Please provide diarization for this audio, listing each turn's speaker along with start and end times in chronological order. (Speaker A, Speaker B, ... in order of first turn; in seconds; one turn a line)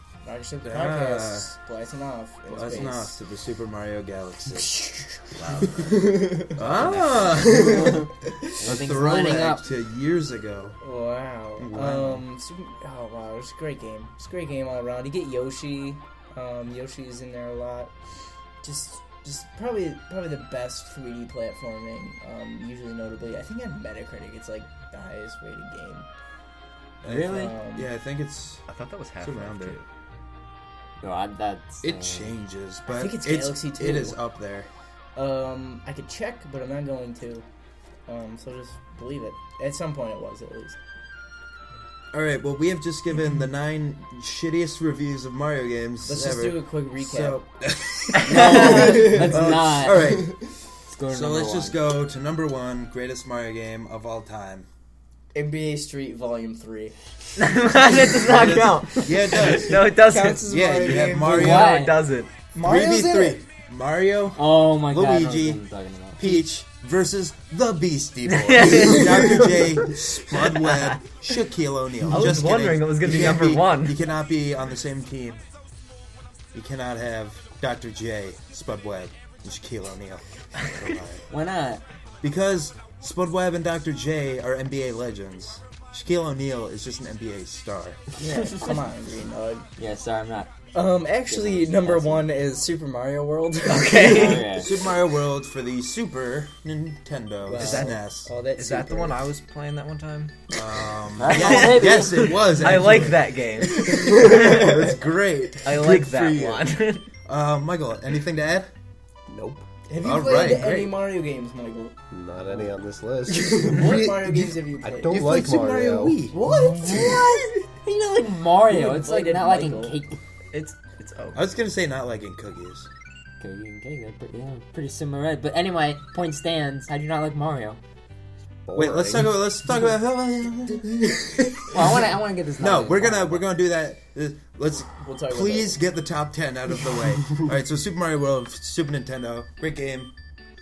Speaker A: 0.2-3.2
Speaker B: 0.6-1.5
Speaker B: 2.5-4.8
Speaker A: 4.6-6.6
Speaker C: 5.3-7.6
Speaker B: 6.5-10.8
Speaker A: 7.3-8.6
Speaker D: 7.7-8.0
Speaker D: 8.6-9.7
Speaker A: 10.8-17.9
Speaker B: 11.6-12.2
Speaker A: 18.6-26.1
Speaker B: 27.0-28.6
Speaker D: 27.0-27.5
Speaker A: 27.1-27.9
Speaker C: 28.7-29.9
Speaker B: 29.2-29.8
Speaker D: 31.0-32.3
Speaker B: 31.8-34.7
Speaker A: 32.9-34.2
Speaker A: 35.1-37.4
Speaker A: 38.1-40.8
Speaker B: 42.1-50.5
Speaker A: 46.0-47.4
Speaker D: 48.2-50.2
Speaker A: 48.3-50.3
Speaker D: 50.9-51.8
Speaker B: 51.1-54.7
Speaker A: 55.3-57.0
Speaker C: 57.4-62.3
Speaker B: 58.3-59.9
Speaker A: 58.5-61.6
Speaker B: 60.5-61.8
Speaker D: 61.3-62.0
Speaker A: 62.5-63.4
Speaker B: 62.6-65.6
Speaker D: 64.3-66.4
Speaker B: 66.1-75.4
Speaker C: 68.3-69.6
Speaker C: 70.3-71.0
Speaker C: 72.1-74.0
Speaker B: 76.5-81.2
Speaker D: 81.3-81.8
Speaker B: 82.2-88.0
Speaker D: 88.2-88.8
Speaker A: 88.2-89.7
Speaker D: 89.8-90.6
Speaker A: 90.7-94.5
Speaker D: 91.3-92.3
Speaker C: 93.7-94.6
Speaker D: 94.0-94.7
Speaker B: 94.5-98.3
Speaker A: 97.4-99.2
Speaker C: 97.5-98.0
Speaker C: 98.5-104.8
Speaker B: 100.5-108.7
Speaker D: 101.2-102.5
Speaker A: 103.6-104.9
Speaker C: 105.6-107.1
Speaker E: 109.3-109.6
Speaker A: 109.9-111.9
Speaker B: 110.0-111.0
Speaker E: 112.1-114.0
Speaker A: 113.3-115.3
Speaker B: 113.6-114.5
Speaker E: 114.8-116.3
Speaker B: 115.1-116.4
Speaker A: 116.3-117.7
Speaker D: 116.8-120.2
Speaker A: 118.6-120.0
Speaker C: 120.5-121.5
Speaker B: 121.3-122.9
Speaker D: 123.4-127.8
Speaker E: 128.7-129.3
Speaker B: 128.7-140.1
Speaker D: 131.7-133.4
Speaker A: 135.0-135.8